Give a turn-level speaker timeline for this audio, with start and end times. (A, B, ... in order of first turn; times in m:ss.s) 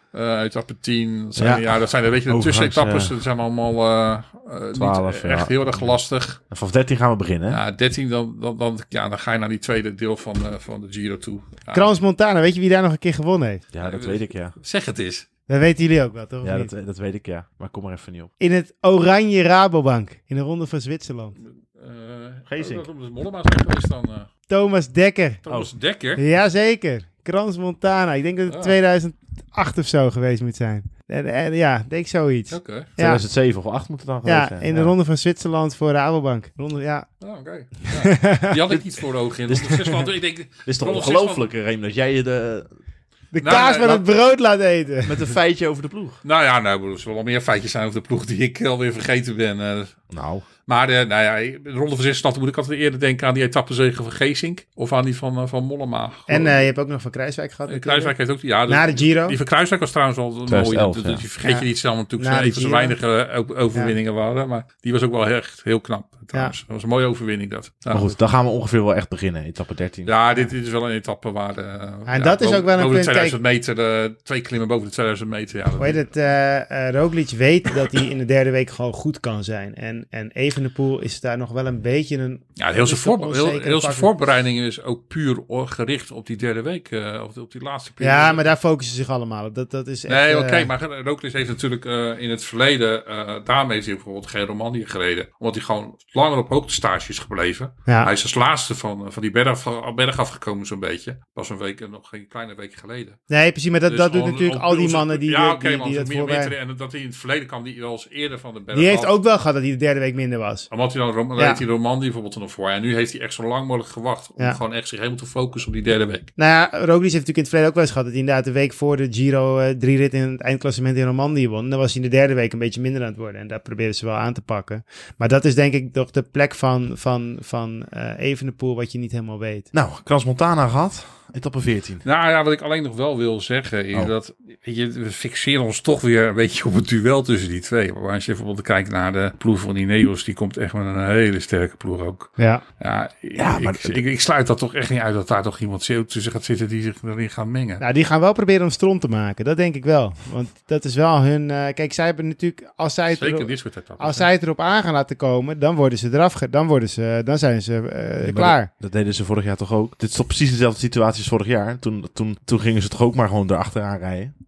0:00.1-0:06.4 A
0:01.4-0:03.1 B
0:04.8-0:05.9 B
0:06.5-0:07.6 B
0:07.5-0:12.0 A
0:11.7-0:13.6 C
0:13.7-0:14.6 B
0:13.8-0:15.3 A
0:15.5-0:16.7 C
0:16.4-0:18.3 B
0:18.4-0:21.4 C
0:21.7-0:24.3 A
0:22.5-0:22.9 B
0:24.5-0:25.5 C
0:25.5-0:26.2 A
0:25.5-0:25.7 B
0:26.2-0:33.2 C
0:28.5-0:28.8 A
0:32.5-0:32.9 A
0:33.0-0:34.9 B
0:34.2-0:37.1 C
0:37.2-0:41.4 A
0:38.0-0:38.5 C
0:39.5-0:42.8 B
0:43.3-0:45.2 C
0:43.4-0:44.1 A
0:45.0-0:46.2 B
0:46.2-0:50.1 A
0:50.1-0:50.4 B
0:50.7-0:56.7 A
0:56.3-0:58.2 C
0:57.7-1:08.1 A
0:58.7-0:59.4 C
1:00.5-1:01.2 B
1:01.4-1:03.0 C
1:07.9-1:10.1 B
1:10.1-1:16.0 A
1:12.1-1:13.4 C
1:15.8-1:24.1 C
1:22.6-1:28.4 A
1:28.0-1:30.7 C
1:30.1-1:43.2 A
1:43.3-1:46.5 C
1:43.9-1:49.2 A
1:48.7-1:50.7 C
1:50.7-1:56.3 A
1:51.4-1:51.6 C
1:56.4-2:09.7 C
2:09.7-2:12.0 B
2:12.0-2:27.8 A
2:22.4-2:22.6 C
2:23.4-2:24.0 B
2:27.8-2:38.7 C
2:33.2-2:34.3 A
2:38.2-2:44.3 B